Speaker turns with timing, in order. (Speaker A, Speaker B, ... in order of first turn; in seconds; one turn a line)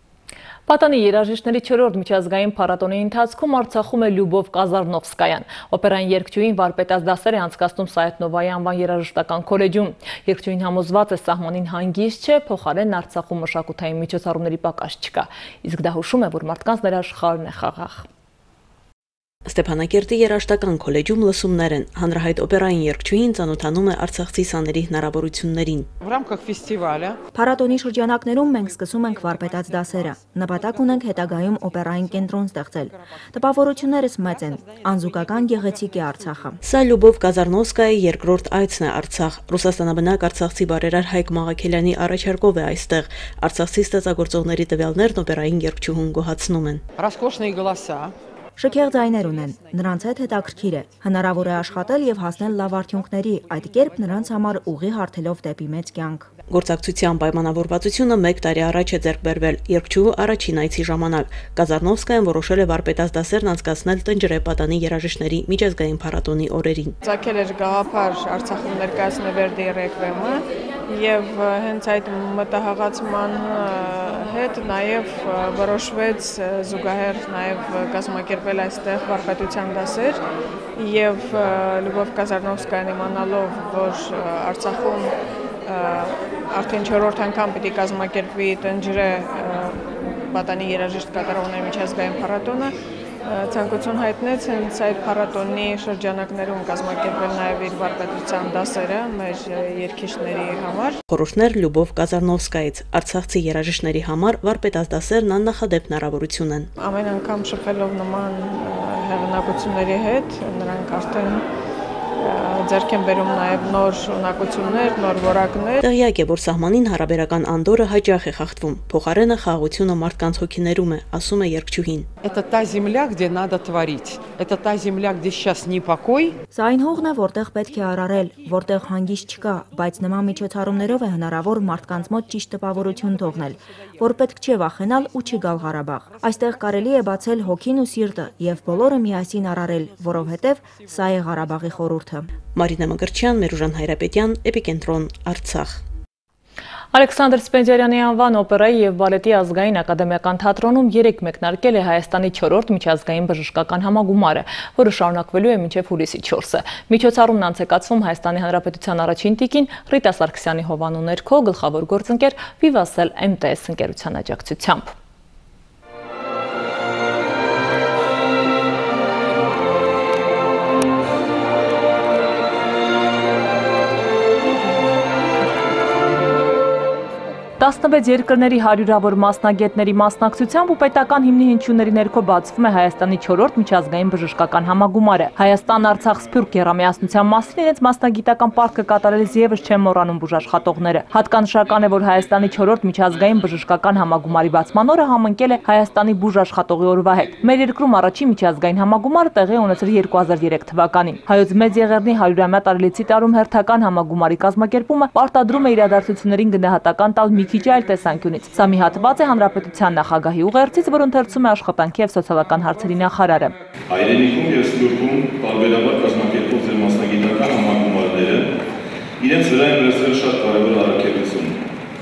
Speaker A: 0.7-18.1
Speaker B: 19.5-25.9
Speaker C: 27.3-36.6
Speaker B: 36.6-46.8
Speaker C: 48.6-56.3
Speaker B: 56.5-67.0
Speaker D: 67.0-80.2
Speaker D: 80.8-85.1
Speaker D: 85.7-101.0
Speaker B: 101.1-106.7
Speaker D: 106.8-111.5
Speaker D: 112.2-115.8
Speaker B: 115.8-122.1
Speaker C: 126.5-142.3
Speaker B: 142.5-145.8
Speaker A: 146.9-164.9
Speaker A: 177.6-213.6
Speaker E: 213.9-218.5
Speaker E: 219.2-221.6